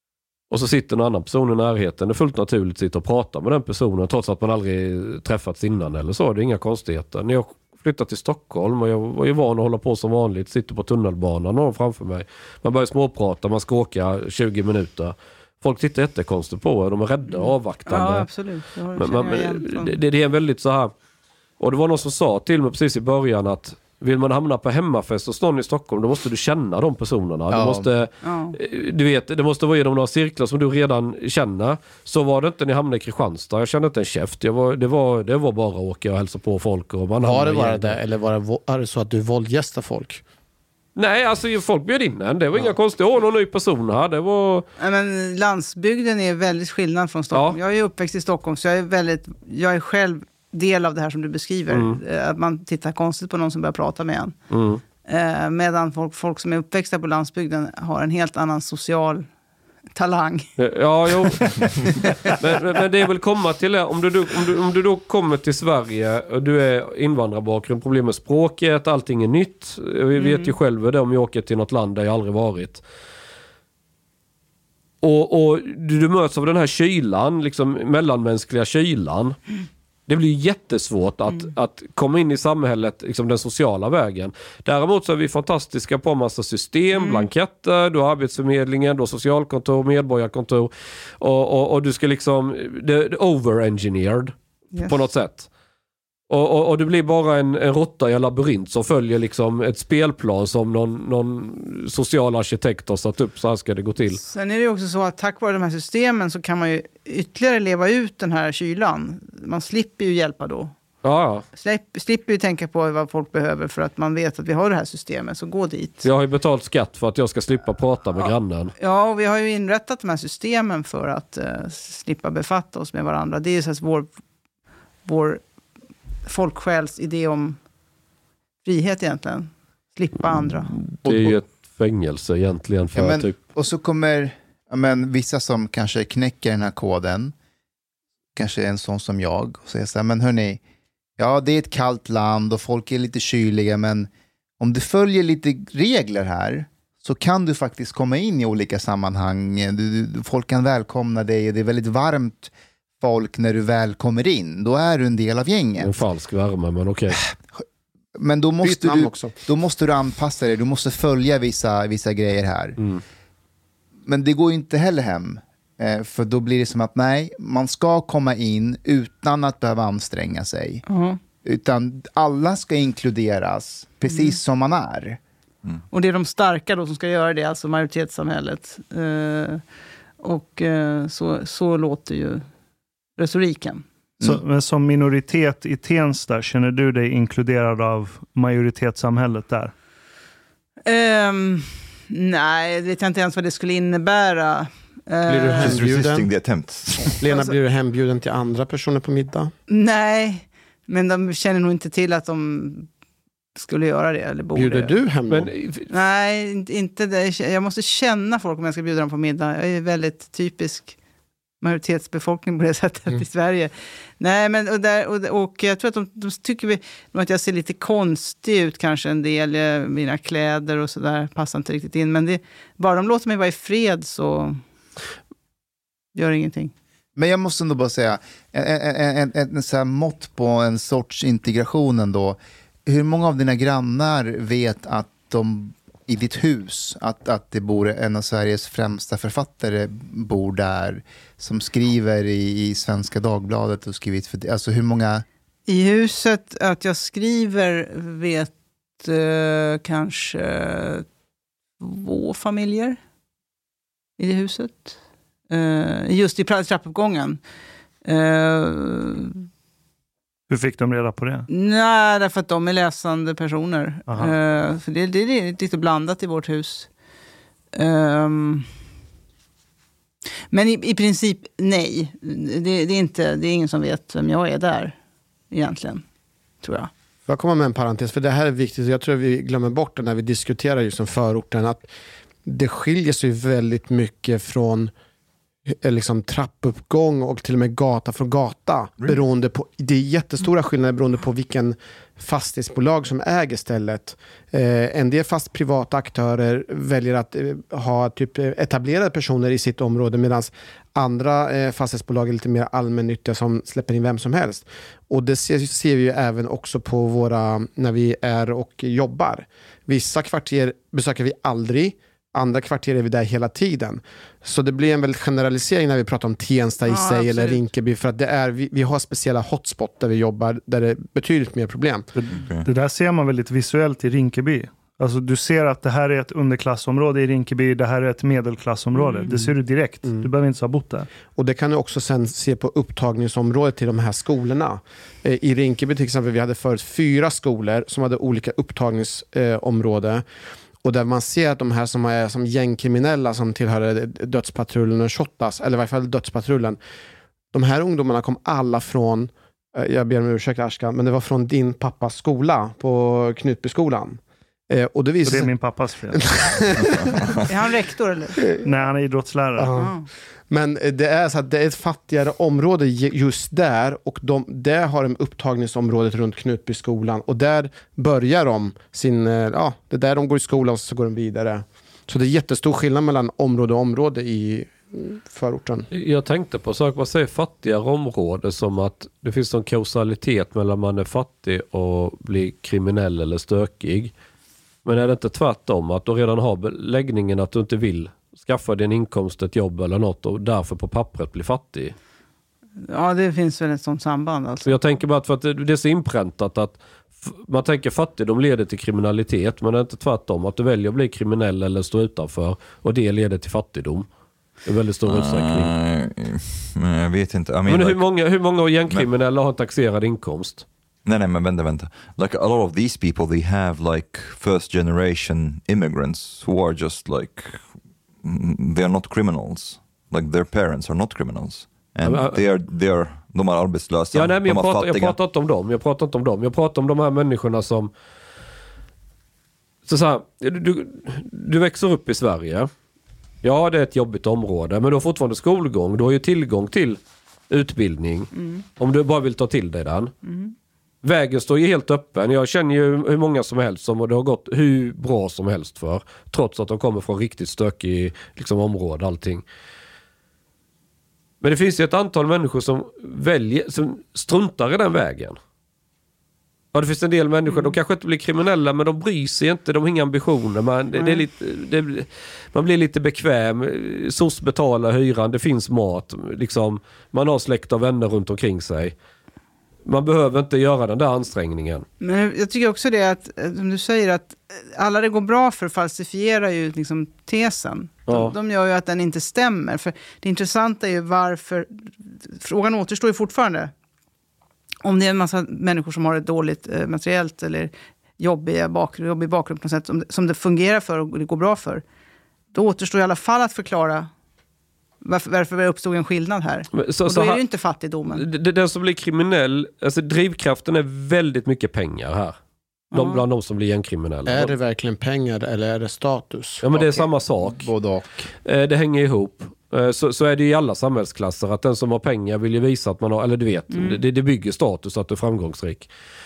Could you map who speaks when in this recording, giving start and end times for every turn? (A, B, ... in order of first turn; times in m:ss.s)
0:00.5-0:18.3 A
0:17.3-0:20.0 B
0:19.0-0:20.9 A
0:21.6-0:38.0 A
0:27.5-0:27.9 C
0:28.2-0:28.6 B
0:37.2-0:40.2 D
0:41.0-0:44.7 A
0:44.8-0:54.4 B
0:47.3-0:47.6 A
0:51.7-0:52.0 A
0:54.5-0:54.8 A
0:55.0-0:59.3 B
0:59.9-1:00.5 B
1:00.6-1:12.8 A
1:10.2-1:10.6 B
1:15.0-1:19.4 A
1:20.1-1:34.3 A
1:26.9-1:27.3 B
1:34.7-1:35.1 B
1:34.9-1:35.5 A
1:36.3-1:44.2 A
1:44.2-1:50.7 B
1:51.0-1:51.4 A
1:51.6-1:56.0 B
1:56.0-1:58.7 A
1:58.2-2:04.1 B
2:05.0-2:05.4 B
2:06.3-2:07.6 B
2:08.6-2:10.7 B
2:10.7-2:13.4 A
2:11.1-2:11.4 C
2:12.9-2:17.3 C
2:18.4-2:20.6 C
2:21.2-2:36.0 C
2:35.8-2:37.2 A
2:38.2-2:42.8 C
2:38.6-2:39.3 D
2:44.1-2:50.8 C
2:50.9-2:51.2 B
2:51.4-2:55.2 C
2:54.1-2:54.4 B
2:55.9-2:59.6 B
3:00.2-3:02.4 B
3:03.2-3:03.8 B
3:04.2-3:09.7 E
3:10.9-3:15.8 B
3:15.3-3:17.2 F
3:15.4-3:16.3 D
3:17.2-3:19.5 D
3:17.3-3:17.6 B
3:19.7-3:22.9 B
3:23.6-3:25.0 B
3:24.5-3:25.5 D
3:25.3-3:25.9 A
3:25.9-3:31.0 B
3:31.6-3:44.6 B
3:46.2-3:46.7 B
3:47.2-4:05.2 C
4:05.7-4:11.0 B
4:11.8-4:13.0 B
4:14.2-4:15.0 B
4:15.5-4:17.4 B
4:18.0-4:19.4 B
4:20.5-4:21.5 E
4:21.5-4:26.9 B
4:24.1-4:24.3 E
4:27.7-4:28.7 B
4:30.5-4:35.0 B
4:35.5-4:36.0 B
4:36.6-4:36.9 B
4:37.3-4:41.9 D
4:42.5-4:44.9 D
4:45.8-5:22.1 D
5:16.8-5:17.6 B
5:22.2-5:31.1 E
5:22.4-5:22.7 F
5:28.9-5:29.3 B
5:29.3-5:30.3 D
5:31.4-5:40.2 D
5:40.8-5:46.8 D
5:47.5-5:55.6 D
5:55.2-5:56.2 E
5:56.1-5:57.2 D
5:57.5-5:58.4 B
5:58.6-5:59.7 E
5:59.6-6:15.9 D
5:59.8-6:00.1 B
6:15.9-6:24.1 A
6:24.8-6:32.0 A
6:32.8-6:34.8 B
6:34.6-6:44.1 A
6:44.7-6:45.7 A
6:45.1-6:48.0 F
6:47.7-6:50.6 A
6:51.1-6:57.7 F
6:58.2-7:05.2 F
7:02.0-7:02.4 A
7:04.1-7:07.9 A
7:09.9-7:12.7 A
7:13.4-7:20.1 A
7:18.4-7:18.6 B
7:20.2-7:20.5 B
7:21.0-7:29.4 A
7:31.4-7:35.4 A
7:36.7-7:49.0 A
7:37.5-7:37.8 B
7:40.9-7:41.2 B
7:49.9-7:51.9 A
7:52.0-8:03.7 B
7:58.1-7:58.4 A
8:04.8-8:11.8 B
8:12.5-8:14.1 B
8:15.0-8:18.2 B
8:16.7-8:17.4 A
8:18.1-8:22.4 A
8:22.9-8:23.2 B
8:22.9-8:24.6 A
8:24.3-8:26.6 D
8:26.6-8:27.7 A
8:26.7-8:28.3 C
8:28.4-8:35.9 A
8:33.7-8:34.0 B